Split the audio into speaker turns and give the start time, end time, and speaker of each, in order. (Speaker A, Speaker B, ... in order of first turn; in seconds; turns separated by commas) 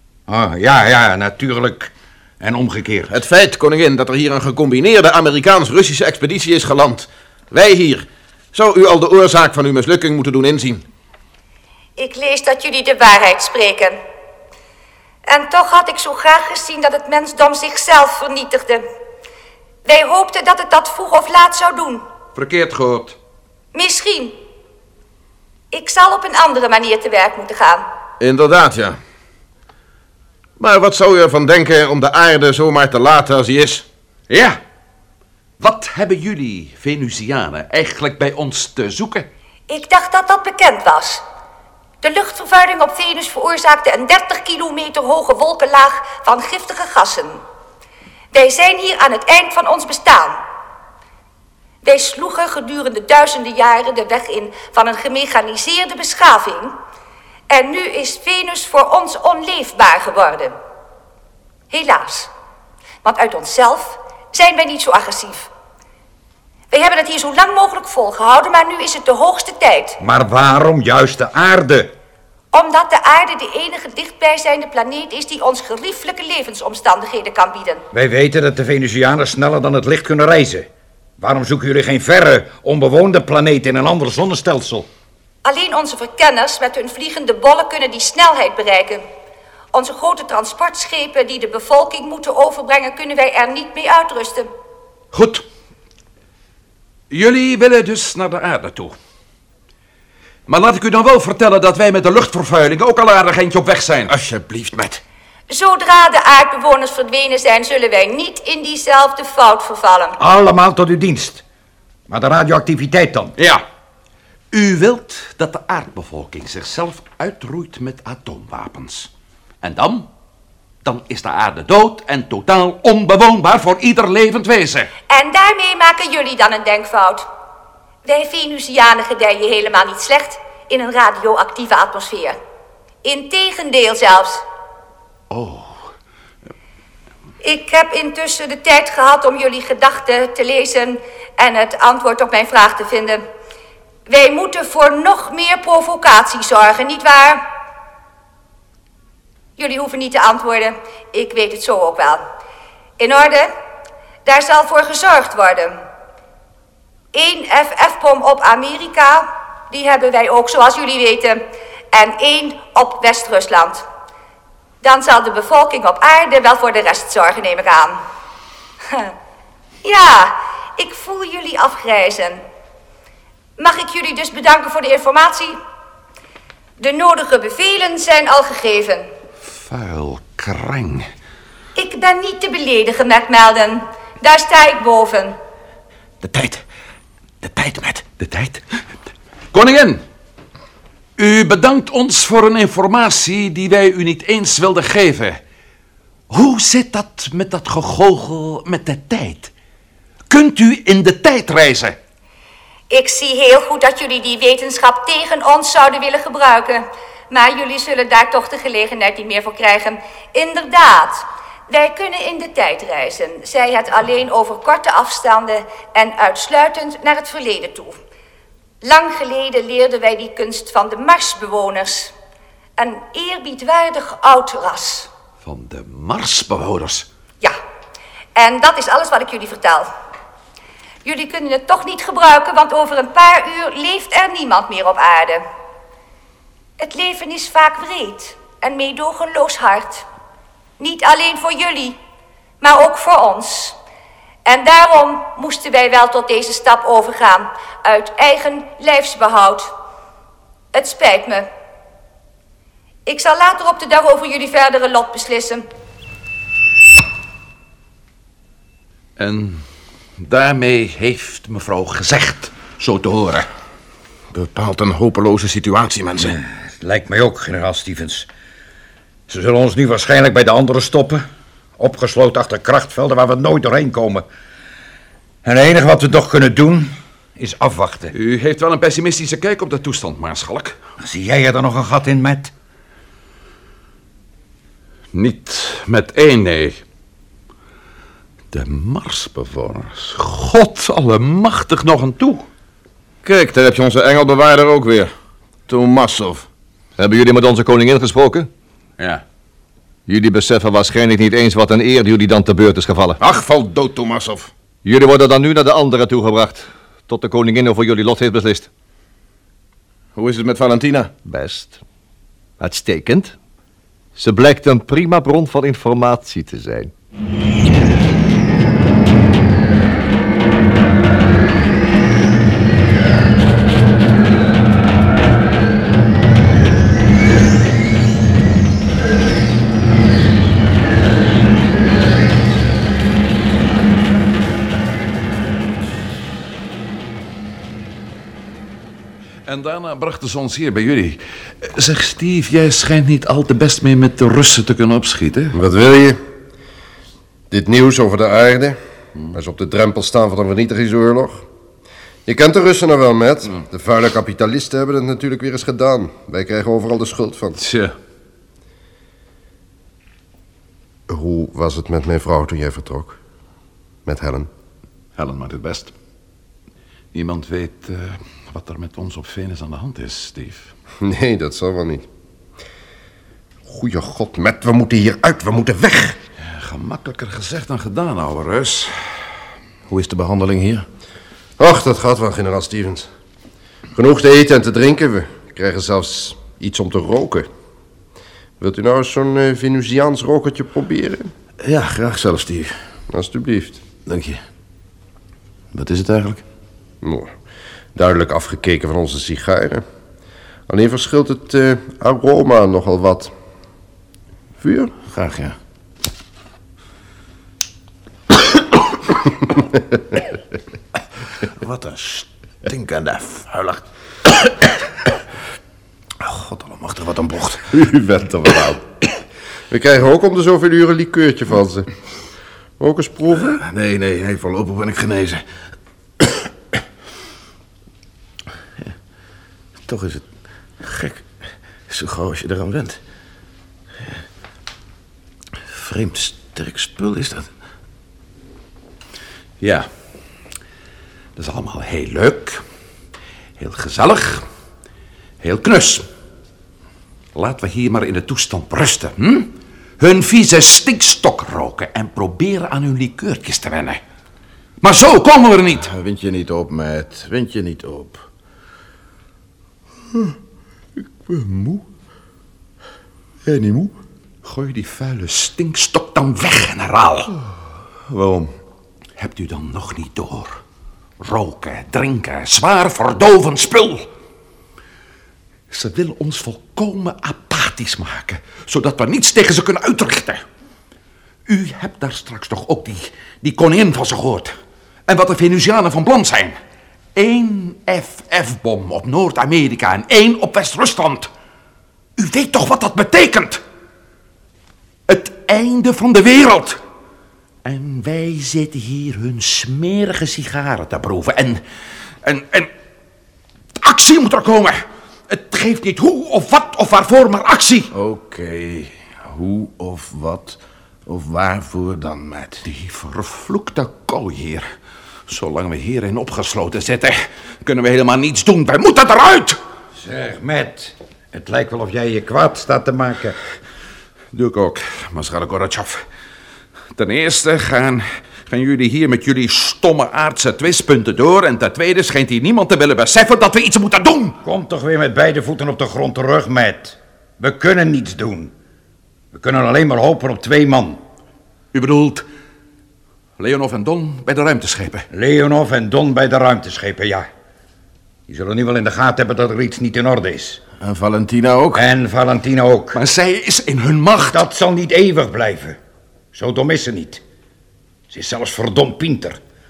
Speaker A: 0.3-3.1, Speaker B: 3.1-10.8, Speaker C: 12.0-14.0, Speaker C: 15.2-18.8, Speaker C: 19.9-22.0, Speaker D: 22.4-23.2, Speaker C: 23.7-24.4, Speaker C: 25.7-27.9, Speaker B: 28.2-29.0, Speaker B: 30.6-33.9, Speaker D: 34.3-34.6, Speaker D: 35.6-39.3, Speaker C: 39.7-41.2, Speaker C: 42.0-47.4, Speaker C: 48.3-50.4, Speaker C: 51.8-56.8, Speaker C: 57.5-60.5, Speaker C: 61.7-62.3, Speaker C: 63.0-65.5, Speaker C: 66.7-70.0, Speaker A: 70.0-71.9, Speaker C: 72.5-77.8, Speaker A: 77.9-80.7, Speaker A: 81.2-84.9, Speaker C: 85.4-89.0, Speaker C: 89.7-94.5, Speaker D: 95.1-95.4, Speaker D: 97.1-99.0, Speaker D: 100.5-104.1, Speaker B: 104.1-105.0, Speaker C: 105.5-110.2, Speaker A: 110.2-111.4, Speaker A: 112.1-113.3, Speaker D: 113.4-113.6, Speaker D: 114.5-119.1, Speaker D: 119.6-120.1, Speaker D: 120.8-124.9, Speaker C: 125.1-127.3, Speaker C: 128.0-132.4, Speaker C: 133.0-134.4, Speaker D: 135.3-135.9, Speaker C: 137.4-143.2, Speaker C: 144.1-147.4, Speaker C: 149.6-152.2, Speaker C: 153.0-153.5, Speaker C: 154.2-155.8, Speaker C: 157.1-163.8, Speaker C: 164.8-168.0, Speaker C: 169.8-172.4, Speaker C: 173.6-175.6, Speaker C: 176.8-179.1, Speaker D: 179.4-181.1, Speaker C: 181.8-185.4, Speaker B: 186.2-186.6, Speaker B: 187.4-188.0, Speaker D: 188.0-188.6, Speaker D: 189.5-190.0, Speaker D: 191.2-195.4, Speaker D: 196.3-199.5, Speaker D: 200.3-202.0, Speaker C: 202.9-218.0, Speaker C: 218.8-222.1, Speaker C: 222.8-225.1, Speaker D: 225.4-227.1, Speaker C: 228.4-229.9, Speaker C: 231.0-235.4, Speaker C: 236.8-240.1, Speaker C: 240.8-242.0, Speaker C: 242.6-243.8, Speaker C: 244.4-249.7, Speaker C: 250.7-251.5, Speaker C: 253.1-255.7, Speaker D: 259.2-259.6, Speaker D: 260.2-263.5, Speaker B: 264.3-266.4, Speaker A: 266.3-268.3, Speaker A: 269.3-271.2, Speaker A: 271.8-274.2, Speaker A: 275.4-278.1, Speaker D: 278.1-280.8, Speaker A: 281.0-282.5, Speaker D: 285.1-286.8, Speaker D: 288.5-292.5, Speaker B: 293.2-295.1, Speaker B: 295.7-296.5, Speaker E: 297.0-298.5, Speaker D: 299.0-299.2, Speaker E: 300.1-303.2, Speaker B: 303.2-304.5, Speaker E: 304.8-308.7, Speaker B: 310.2-311.2, Speaker E: 311.2-311.8, Speaker E: 312.6-313.4, Speaker E: 314.2-316.9, Speaker D: 339.5-345.6, Speaker F: 345.5-346.2, Speaker F: 347.5-348.8, Speaker F: 349.3-351.5, Speaker F: 352.2-357.6, Speaker D: 357.6-357.9, Speaker F: 361.1-363.2, Speaker F: 364.1-364.5, Speaker D: 365.2-365.9, Speaker D: 367.1-370.7, Speaker F: 371.0-372.1, Speaker F: 373.7-376.2, Speaker D: 376.4-379.2, Speaker B: 379.9-380.9, Speaker F: 381.6-383.1, Speaker F: 383.9-387.5, Speaker F: 388.6-391.3, Speaker B: 391.6-392.9, Speaker F: 393.1-393.8, Speaker B: 394.1-394.4, Speaker B: 395.7-396.4, Speaker F: 397.0-397.3, Speaker F: 397.9-399.9, Speaker F: 400.7-403.3, Speaker F: 404.6-404.9, Speaker B: 405.1-405.6, Speaker B: 411.6-413.8, Speaker B: 416.2-417.7, Speaker F: 417.8-418.8, Speaker F: 419.7-421.9, Speaker F: 422.8-423.6, Speaker B: 423.5-425.4, Speaker B: 429.9-430.2, Speaker B: 430.8-431.3, Speaker B: 431.9-433.0, Speaker B: 435.7-437.5, Speaker D: 439.6-439.9, Speaker D: 441.4-442.6, Speaker D: 443.6-444.4, Speaker D: 445.4-446.1, Speaker D: 447.3-454.0, Speaker D: 454.8-455.9, Speaker B: 455.8-458.2, Speaker B: 461.2-461.8, Speaker B: 463.4-463.9, Speaker D: 464.4-467.3, Speaker B: 468.1-468.5, Speaker D: 469.2-470.6, Speaker D: 471.2-474.1, Speaker D: 475.7-480.4, Speaker D: 481.5-484.5, Speaker D: 485.1-486.6, Speaker D: 487.1-491.3, Speaker D: 492.2-493.6, Speaker D: 495.1-496.8, Speaker D: 497.6-501.6, Speaker D: 502.2-502.7, Speaker D: 503.8-507.9, Speaker B: 507.9-512.6, Speaker D: 512.6-514.7, Speaker D: 515.3-519.6, Speaker A: 520.0-523.4, Speaker D: 524.3-526.0, Speaker D: 527.0-534.4, Speaker A: 534.5-538.5, Speaker A: 539.3-541.0, Speaker D: 541.7-542.2, Speaker D: 543.4-545.0, Speaker A: 545.1-547.3, Speaker A: 548.3-550.6, Speaker B: 550.8-551.8, Speaker A: 551.7-553.0, Speaker D: 553.0-554.5, Speaker A: 554.3-555.8, Speaker A: 556.3-557.2, Speaker A: 558.1-559.4